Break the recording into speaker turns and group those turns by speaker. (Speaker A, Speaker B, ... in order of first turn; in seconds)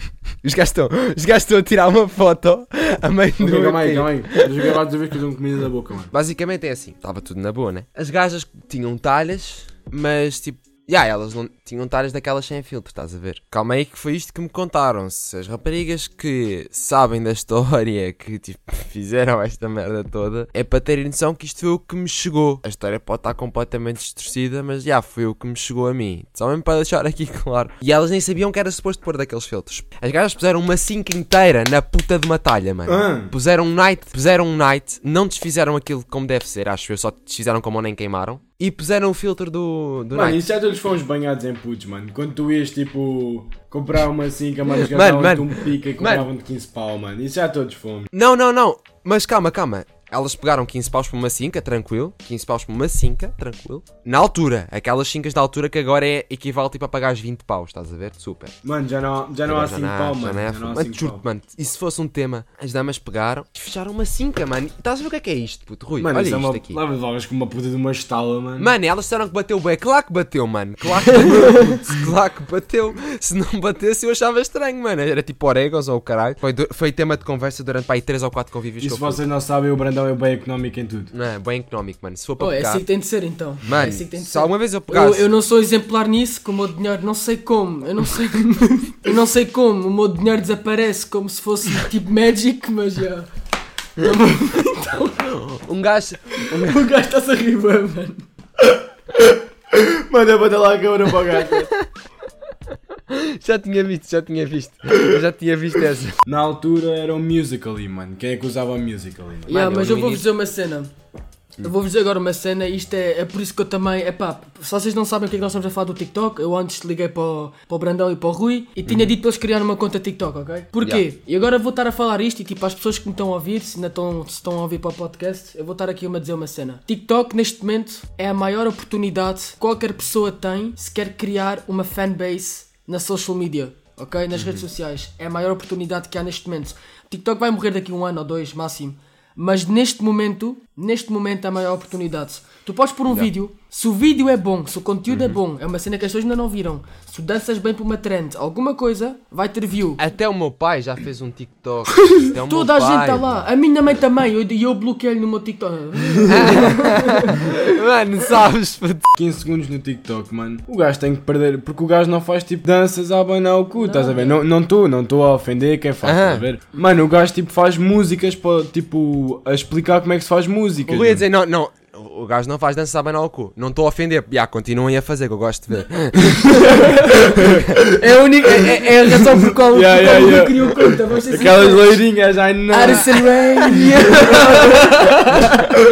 Speaker A: 0.4-4.7, 6.1-40.4, 44.9-46.3, 48.1-58.5, 59.5-66.8, 68.6-79.2, 81.1-82.8, 83.6-85.3, 95.2-96.8, 103.1-106.2, 109.5-110.2, 118.8-119.1, 134.3-134.6, 145.1-145.4, 150.0-153.4, 156.3-159.1, 166.0-166.4, 170.9-176.8, 177.4-177.8
Speaker B: 3.4-6.1, 32.9-33.3, 40.1-48.1, 58.6-61.2, 66.0-68.7, 78.8-81.1, 99.3-101.7, 106.2-109.5, 159.1-171.2, 176.2-185.2
Speaker C: 82.4-93.3, 94.0-95.1, 96.4-98.2, 109.5-110.9, 111.6-150.0, 152.2-157.4, 163.8-164.4, 178.0-181.9, 182.7-185.7